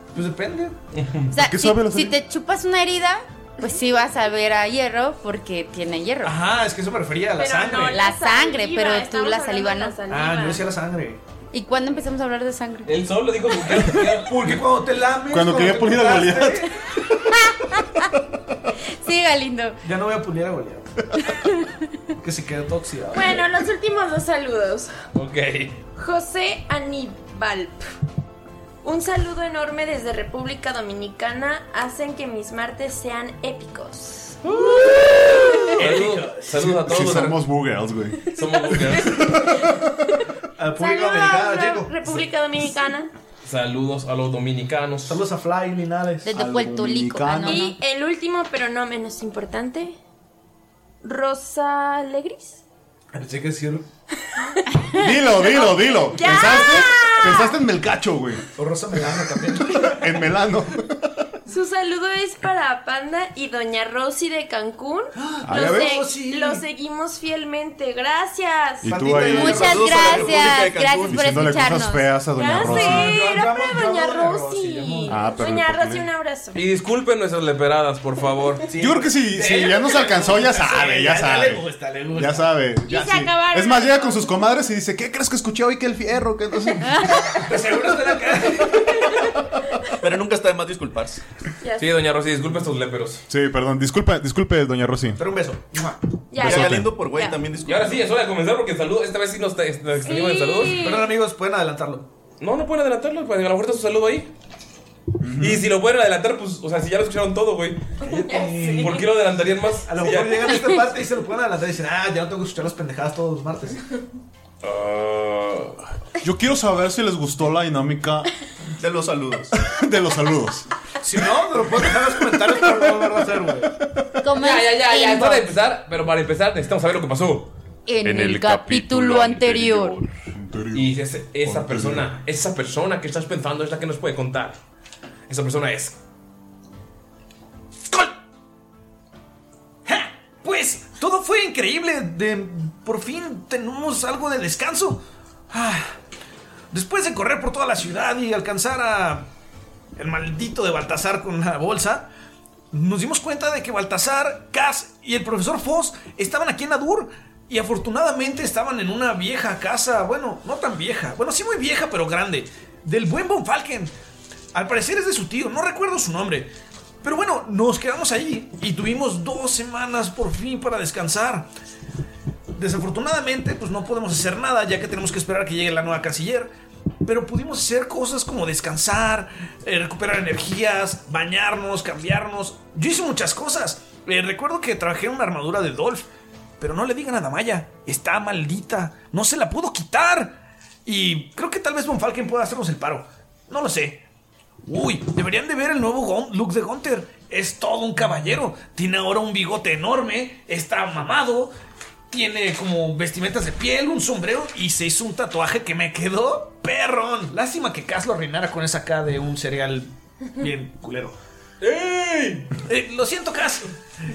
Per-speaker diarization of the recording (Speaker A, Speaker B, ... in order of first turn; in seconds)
Speaker A: 0.1-0.8, 6.2-8.0, 10.1-11.2, 14.0-16.7, 19.8-20.9, 22.2-23.4, 35.7-36.7, 40.6-41.9, 45.1-46.3, 53.1-53.9, 58.5-60.0, 65.2-66.6, 68.9-70.3, 72.6-75.2, 78.7-82.5, 87.4-89.1, 95.2-96.0, 100.8-102.1, 108.0-108.9, 109.9-113.8, 121.0-123.7, 139.8-146.0, 146.7-149.3, 150.0-152.1, 152.7-163.9, 164.5-166.5, 167.0-171.5, 172.5-176.5, 177.0-186.0, 186.6-194.0, 194.6-201.5, 202.1-211.2, 212.6-213.7
Speaker B: 0.9-1.3, 12.8-14.6, 25.1-25.7, 34.5-35.2, 35.8-37.4, 38.3-39.2, 43.4-45.2, 76.5-78.6, 91.8-93.2, 97.7-100.8, 102.4-104.3, 105.4-107.9, 108.7-110.6, 114.6-115.8, 124.4-127.5, 128.0-130.1, 130.7-134.6, 135.3-136.0, 211.6-212.5
Speaker C: 1.3-6.4, 7.9-10.0, 11.5-12.9, 17.5-17.8, 19.0-19.8, 46.2-47.8, 69.3-72.2, 124.2-125.5, 127.9-130.0
Speaker D: 1.3-2.1, 15.3-16.7, 36.8-38.3, 46.3-47.6, 55.0-58.4, 60.0-61.2, 65.4-66.0, 68.8-70.2, 71.0-73.1, 75.1-76.1, 78.8-81.6, 82.1-87.2, 93.3-95.2, 96.4-96.9, 105.2-105.7, 116.2-118.3, 119.5-120.7, 130.4-130.9, 131.4-132.1
Speaker E: 7.3-10.7, 23.1-24.9, 25.9-27.8, 28.8-35.7, 40.8-43.1, 47.4-50.0, 51.0-52.6, 55.3-57.6, 61.5-69.1, 72.3-76.6, 82.8-84.4, 91.6-91.9, 96.3-97.4, 100.0-101.2, 108.0-109.1
Speaker F: 69.3-71.3, 90.0-91.2, 96.4-98.0, 118.8-119.5